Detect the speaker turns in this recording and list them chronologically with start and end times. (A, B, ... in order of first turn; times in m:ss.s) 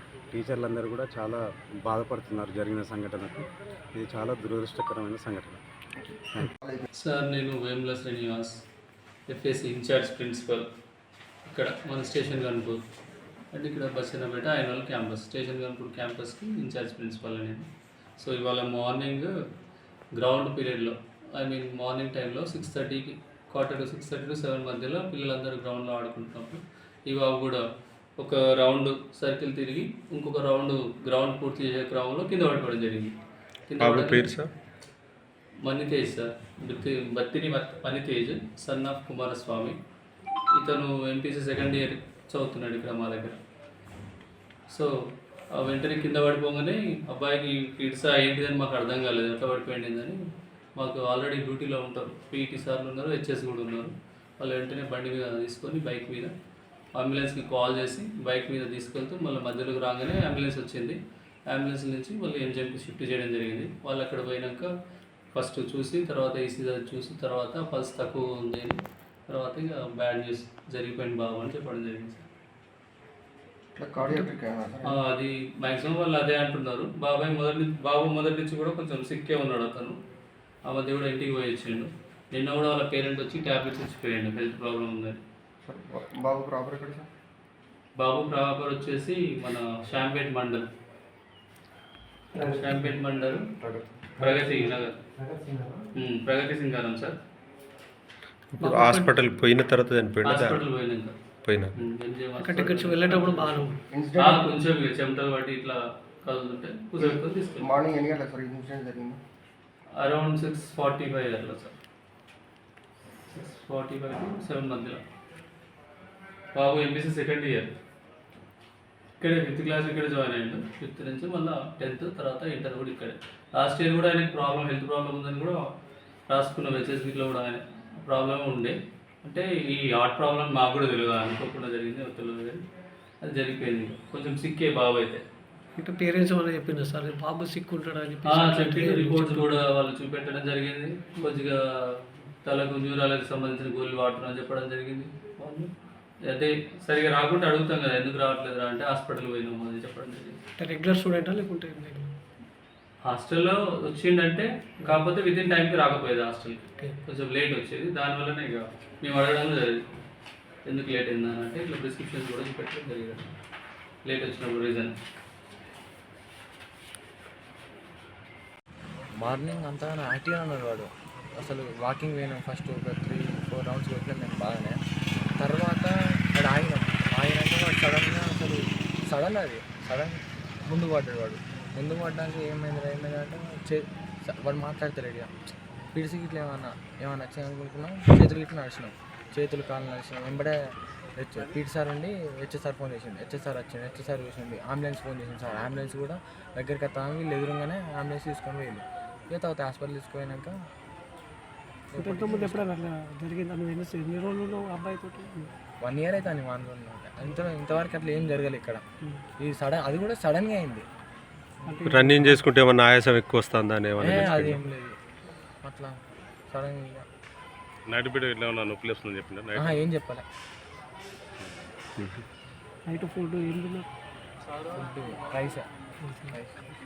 0:00.3-0:05.6 A
0:06.0-0:06.8 B
0:07.0-0:08.5 C
0:09.3-0:10.6 C
0:11.4-0:12.8 C
0:13.5-0:17.7 C
0:18.2-0:19.3 C
0:20.2-0:27.6 C
0:28.2-0:33.1 C
0:33.7-0:34.4 C
0:33.8-0:34.5 D
0:35.6-0:39.8 C
0:40.5-0:43.4 C
0:45.6-0:50.2 C
0:50.8-0:56.3 C
0:57.0-1:01.0 C
1:01.5-1:04.7 C
1:05.3-1:12.3 C
1:13.8-1:15.0 B
1:14.0-1:14.3 C
1:14.8-1:20.0 C
1:20.7-1:25.2 C
1:25.6-1:27.1 B
1:28.0-1:30.6 C
1:32.4-1:32.9 E
1:32.4-1:33.4 C
1:33.6-1:34.3 B
1:34.2-1:34.9 C
1:34.3-1:35.9 E
1:36.0-1:37.2 C
1:38.5-1:40.6 D
1:38.6-1:39.2 E
1:40.2-1:41.1 C
1:41.7-1:47.8 C
1:42.4-1:43.8 E
1:43.9-1:44.5 B
1:47.0-1:49.2 B
1:50.0-1:51.7 C
1:53.3-1:55.0 C
1:56.5-1:57.7 C
1:59.2-2:05.6 C
2:06.3-2:12.6 C
2:13.2-2:15.2 C
2:15.8-2:19.6 E
2:18.2-2:25.7 C
2:26.3-2:30.4 C
2:30.6-2:32.1 E
2:33.0-2:39.8 C
2:40.7-2:43.3 C
2:44.0-2:44.9 C
2:49.2-2:54.8 F
2:55.4-3:05.3 F
3:05.9-3:10.6 F
3:11.2-3:20.5 F
3:21.9-3:22.7 F
3:22.0-3:25.5 E
3:25.8-3:28.8 F
3:29.4-3:30.8 F
3:31.6-3:32.5 E
3:31.9-3:34.6 D
3:34.0-3:35.0 F
3:35.6-3:37.1 F
3:37.9-3:39.8 D
3:39.5-3:40.2 F
3:42.9-3:43.9 E
3:44.7-3:45.6 F
3:46.3-3:46.7 F